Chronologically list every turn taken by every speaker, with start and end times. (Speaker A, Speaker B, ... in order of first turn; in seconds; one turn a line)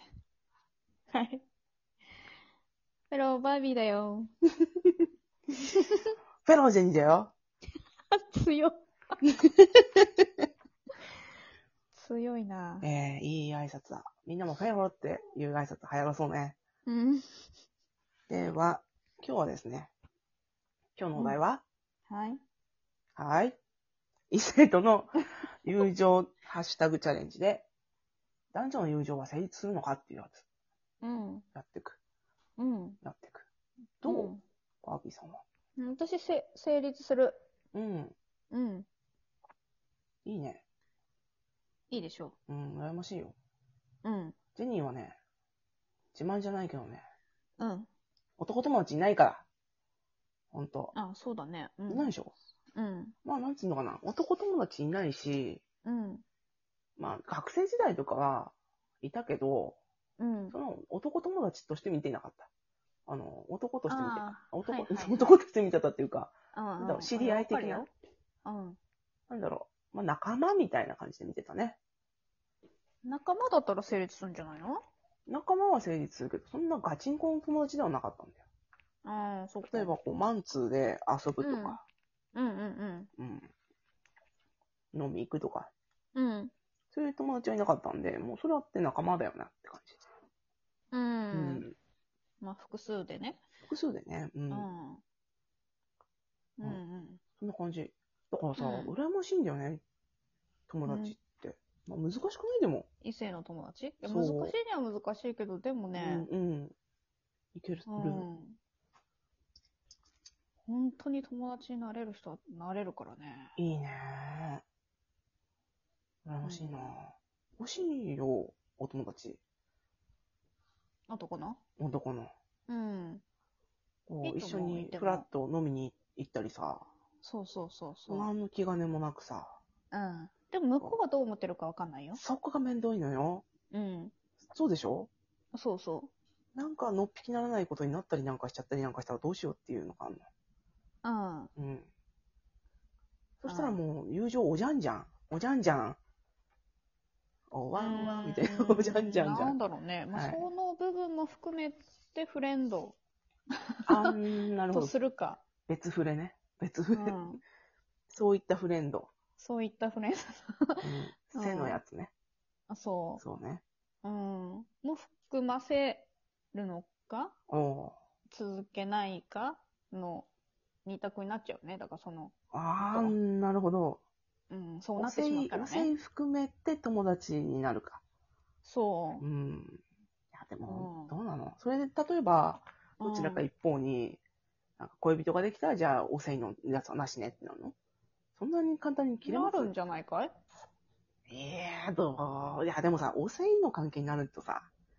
Speaker A: 1.1-1.4
Speaker A: 3.1-4.3
Speaker A: 5.7-6.1
Speaker B: 6.4-7.3
Speaker A: 8.1-8.8
Speaker B: 9.2-10.4
Speaker A: 11.9-12.8
Speaker B: 12.8-16.6
Speaker A: 16.9-17.4
Speaker B: 18.3-19.9
Speaker B: 20.9-21.6
Speaker A: 21.1-21.4
Speaker A: 22.1-22.4
Speaker B: 23.1-23.6
Speaker B: 24.3-27.6
Speaker B: 28.5-30.4
Speaker A: 31.0-31.5
Speaker B: 31.5-32.0
Speaker A: 32.6-33.0
Speaker B: 33.0-33.5
Speaker B: 34.0-35.4
Speaker A: 34.0-34.4
Speaker A: 35.8-37.4
Speaker B: 37.7-38.1
Speaker A: 38.5-38.9
Speaker B: 40.2-40.6
Speaker A: 41.9-42.4
Speaker B: 42.5-43.3
Speaker A: 44.0-44.5
Speaker B: 44.5-45.2
Speaker B: 46.1-47.0
Speaker A: 47.6-47.9
Speaker B: 48.4-49.5
Speaker B: 50.5-50.9
Speaker A: 50.9-52.1
Speaker B: 51.9-52.3
Speaker A: 52.7-53.1
Speaker B: 53.2-55.6
Speaker A: 55.8-56.2
Speaker B: 57.0-59.8
Speaker A: 60.2-60.6
Speaker B: 60.5-62.5
Speaker B: 63.0-67.9
Speaker A: 63.9-65.4
Speaker A: 66.5-67.9
Speaker A: 68.4-68.8
Speaker B: 69.3-71.8
Speaker A: 73.0-74.8
Speaker B: 75.3-78.4
Speaker A: 79.0-80.0
Speaker B: 79.7-81.8
Speaker A: 81.4-81.8
Speaker A: 82.3-83.1
Speaker B: 83.2-83.5
Speaker B: 84.9-85.7
Speaker A: 86.1-86.5
Speaker B: 86.9-90.0
Speaker A: 90.9-91.7
Speaker B: 91.3-91.8
Speaker A: 92.4-93.4
Speaker B: 93.7-94.7
Speaker A: 94.5-95.0
Speaker A: 96.6-97.2
Speaker B: 97.3-99.8
Speaker A: 98.5-98.9
Speaker B: 100.7-102.9
Speaker A: 100.8-101.3
Speaker A: 103.0-106.3
Speaker B: 104.0-104.5
Speaker B: 106.0-106.7
Speaker B: 107.5-108.2
Speaker A: 107.8-108.6
Speaker A: 110.6-113.5
Speaker B: 113.6-114.6
Speaker B: 116.2-119.4
Speaker A: 116.4-116.9
Speaker A: 121.1-121.6
Speaker B: 121.8-122.3
Speaker A: 122.7-123.2
Speaker B: 124.1-126.8
Speaker A: 124.2-125.3
Speaker A: 127.2-128.3
Speaker B: 128.1-129.6
Speaker A: 129.9-132.2
Speaker B: 132.1-133.4
Speaker A: 133.7-134.1
Speaker B: 134.5-135.1
Speaker A: 135.5-136.1
Speaker B: 136.5-140.2
Speaker A: 141.0-141.5
Speaker B: 141.6-141.9
Speaker B: 143.4-146.0
Speaker A: 143.4-143.8
Speaker B: 147.5-149.6
Speaker A: 147.7-153.0
Speaker B: 150.1-150.4
Speaker A: 153.8-155.5
Speaker B: 153.9-155.0
Speaker B: 155.7-157.2
Speaker A: 156.5-157.4
Speaker B: 158.1-159.1
Speaker A: 159.4-161.8
Speaker B: 160.8-162.1
Speaker A: 162.7-163.2
Speaker B: 163.2-163.6
Speaker A: 164.0-167.3
Speaker B: 167.5-167.9
Speaker A: 168.3-170.3
Speaker A: 170.8-173.2
Speaker B: 172.5-174.0
Speaker A: 174.5-175.9
Speaker B: 175.0-178.0
Speaker A: 178.6-179.2
Speaker B: 179.2-179.8
Speaker B: 180.3-184.2
Speaker A: 180.6-181.1
Speaker A: 183.0-183.5
Speaker B: 184.8-187.7
Speaker B: 188.4-189.7
Speaker A: 189.2-190.3
Speaker B: 191.3-194.7